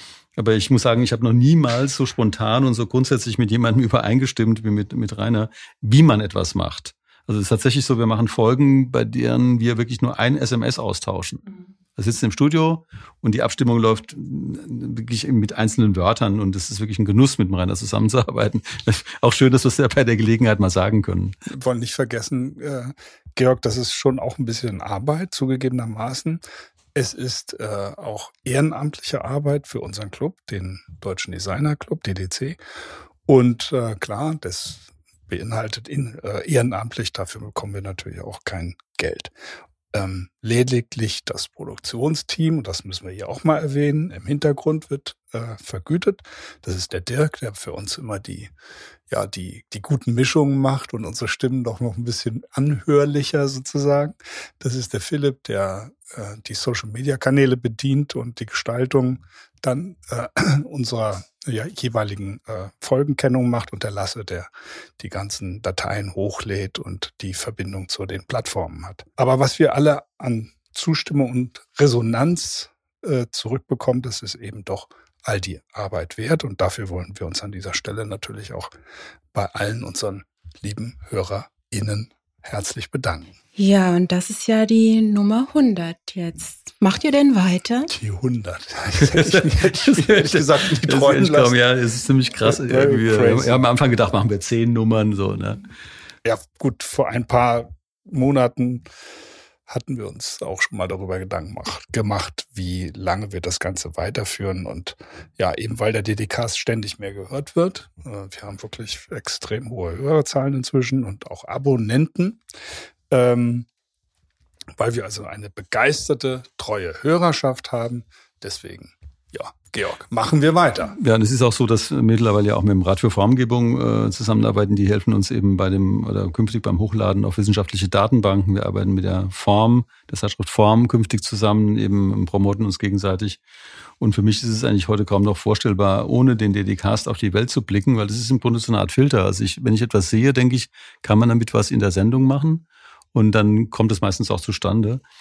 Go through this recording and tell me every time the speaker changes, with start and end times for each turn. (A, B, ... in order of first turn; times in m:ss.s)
0:00.4-0:11.4 A
0:12.0-0:21.3 A
0:21.5-0:26.4 B
0:26.9-0:32.6 B
0:33.2-0:39.3 B
0:39.9-0:48.5 B
0:49.1-1:18.7 B
1:19.3-1:23.3 B
1:23.6-1:27.9 C
1:27.9-1:31.6 B
1:29.0-1:35.6 A
1:32.4-1:33.6 B
1:36.2-1:38.9 B
1:39.7-1:52.4 B
1:53.1-1:53.7 B
1:54.8-2:01.0 B
2:01.0-2:13.4 A
2:14.0-2:25.0 A